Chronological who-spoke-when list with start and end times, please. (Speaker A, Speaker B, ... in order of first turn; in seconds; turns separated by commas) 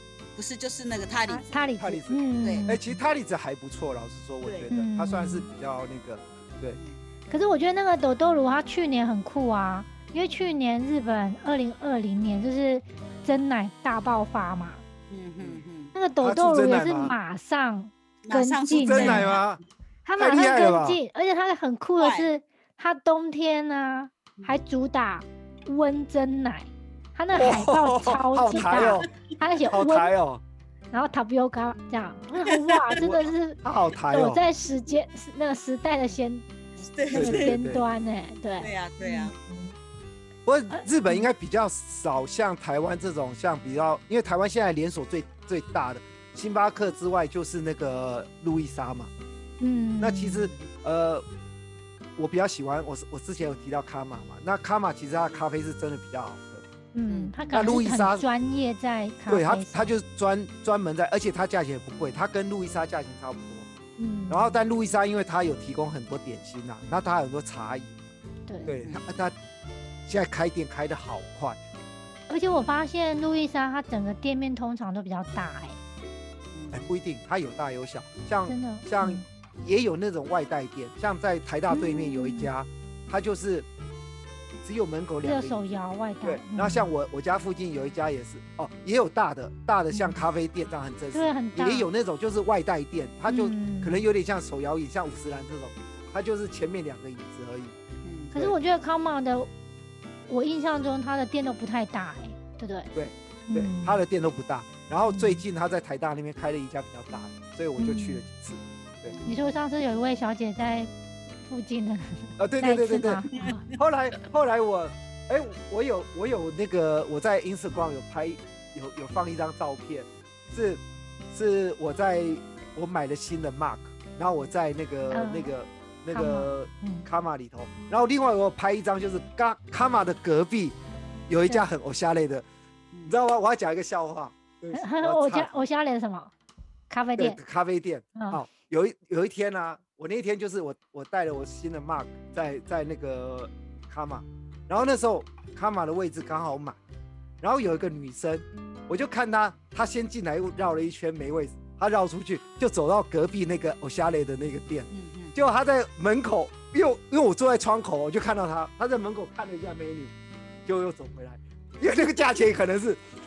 Speaker A: 0.3-1.6, Speaker B: 1.3-3.0, Speaker C: 1.8-6.8, Speaker A: 2.4-2.7, Speaker A: 4.4-4.7, Speaker B: 4.7-5.5, Speaker B: 7.3-14.8, Speaker A: 15.1-15.9, Speaker B: 15.9-19.4, Speaker C: 16.2-17.1, Speaker A: 18.2-19.6, Speaker C: 18.8-19.6, Speaker B: 20.0-30.1, Speaker C: 20.2-21.0, Speaker A: 22.0-22.3, Speaker C: 27.3-29.1, Speaker C: 29.7-30.4, Speaker B: 30.9-36.4, Speaker A: 32.5-33.1, Speaker C: 33.6-34.4, Speaker A: 36.8-37.5, Speaker C: 37.1-37.8, Speaker B: 37.1-39.7, Speaker A: 38.6-39.3, Speaker C: 40.5-49.1, Speaker B: 40.7-41.3, Speaker B: 49.6-50.5, Speaker C: 50.0-51.2, Speaker C: 52.2-56.6, Speaker B: 56.9-59.9, Speaker A: 57.1-57.5, Speaker C: 57.5-58.2, Speaker C: 59.3-63.7, Speaker B: 64.0-64.6, Speaker C: 64.3-68.1, Speaker B: 68.5-68.7, Speaker C: 68.7-69.3, Speaker A: 68.7-69.0, Speaker C: 70.0-71.6, Speaker B: 72.3-75.8, Speaker A: 76.5-76.8, Speaker C: 76.7-83.7, Speaker B: 78.5-79.2, Speaker B: 81.7-82.5, Speaker C: 84.6-97.7, Speaker B: 85.2-86.9, Speaker B: 89.9-90.2, Speaker B: 91.1-91.9, Speaker B: 93.3-94.0, Speaker A: 98.0-98.3, Speaker B: 98.3-99.5, Speaker B: 100.3-102.9, Speaker C: 102.9-109.2, Speaker B: 103.5-104.0, Speaker B: 105.1-105.4, Speaker B: 107.8-108.2, Speaker A: 109.0-109.6, Speaker B: 109.2-110.9, Speaker B: 111.5-113.7, Speaker C: 112.4-130.8, Speaker B: 125.1-125.5, Speaker B: 126.1-127.0, Speaker C: 131.3-132.4, Speaker C: 133.1-135.6, Speaker B: 134.7-136.3, Speaker B: 136.9-137.4, Speaker C: 137.2-146.8, Speaker B: 138.2-138.4, Speaker C: 147.4-160.1, Speaker A: 154.9-155.3, Speaker C: 160.7-163.0